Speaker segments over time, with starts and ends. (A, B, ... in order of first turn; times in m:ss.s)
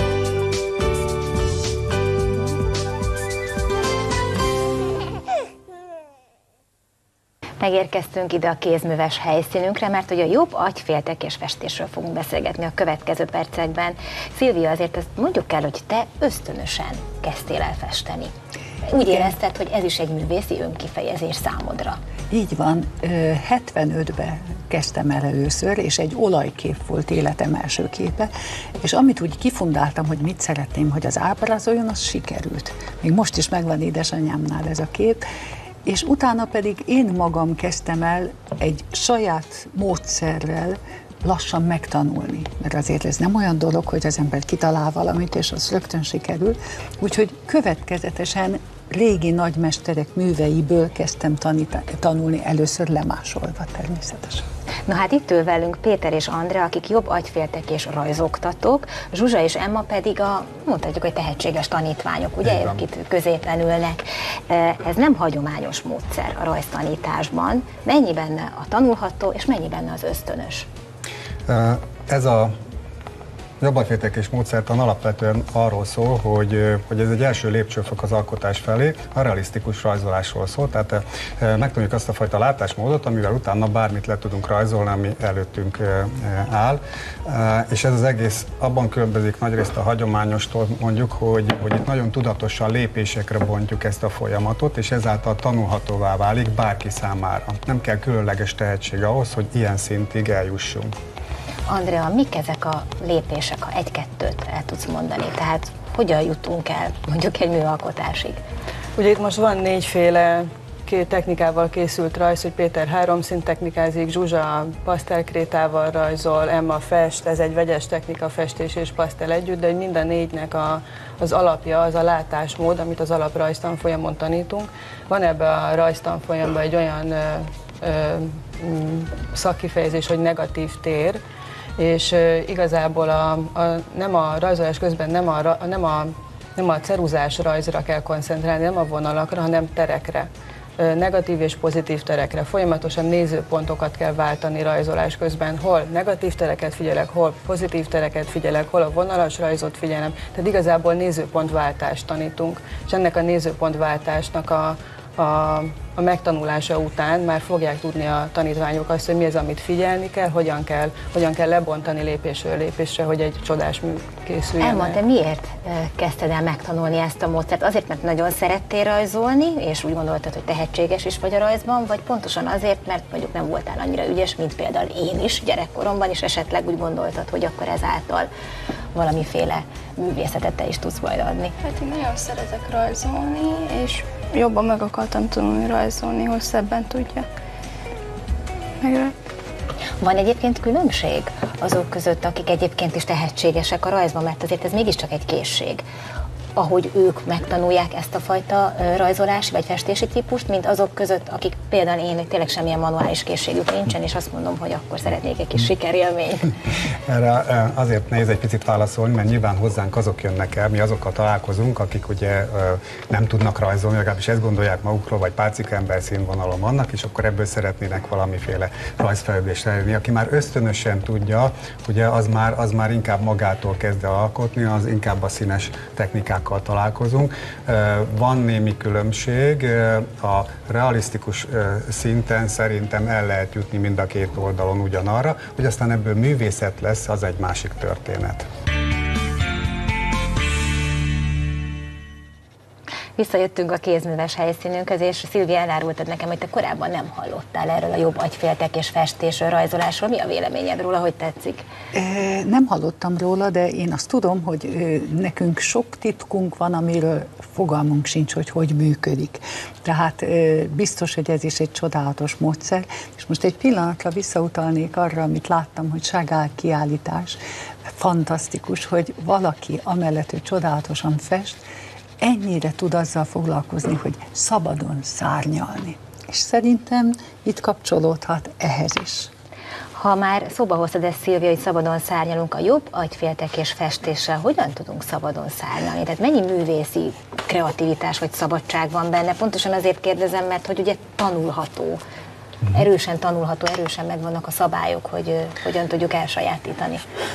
0:07.6-0:18.3 A
0:18.8-0:22.0 A
0:22.3-0:28.3 B
0:28.8-0:35.2 B
0:35.8-0:54.4 B
0:54.9-1:10.7 A
1:02.4-1:02.7 C
1:11.5-1:12.5 C
1:13.6-1:40.9 C
1:41.7-1:48.4 A
1:49.0-2:11.2 D
2:11.8-2:45.0 D
2:44.6-2:58.3 A
2:58.9-3:01.5 A
3:01.6-3:07.2 E
3:08.8-3:09.1 E
3:10.0-3:15.8 A
3:16.5-3:26.5 A
3:27.1-3:58.4 C
4:03.2-4:11.6 A
4:11.9-4:27.4 B
4:28.0-4:31.6 B
4:32.2-4:39.3 B
4:39.9-4:52.0 A
4:52.7-4:57.0 A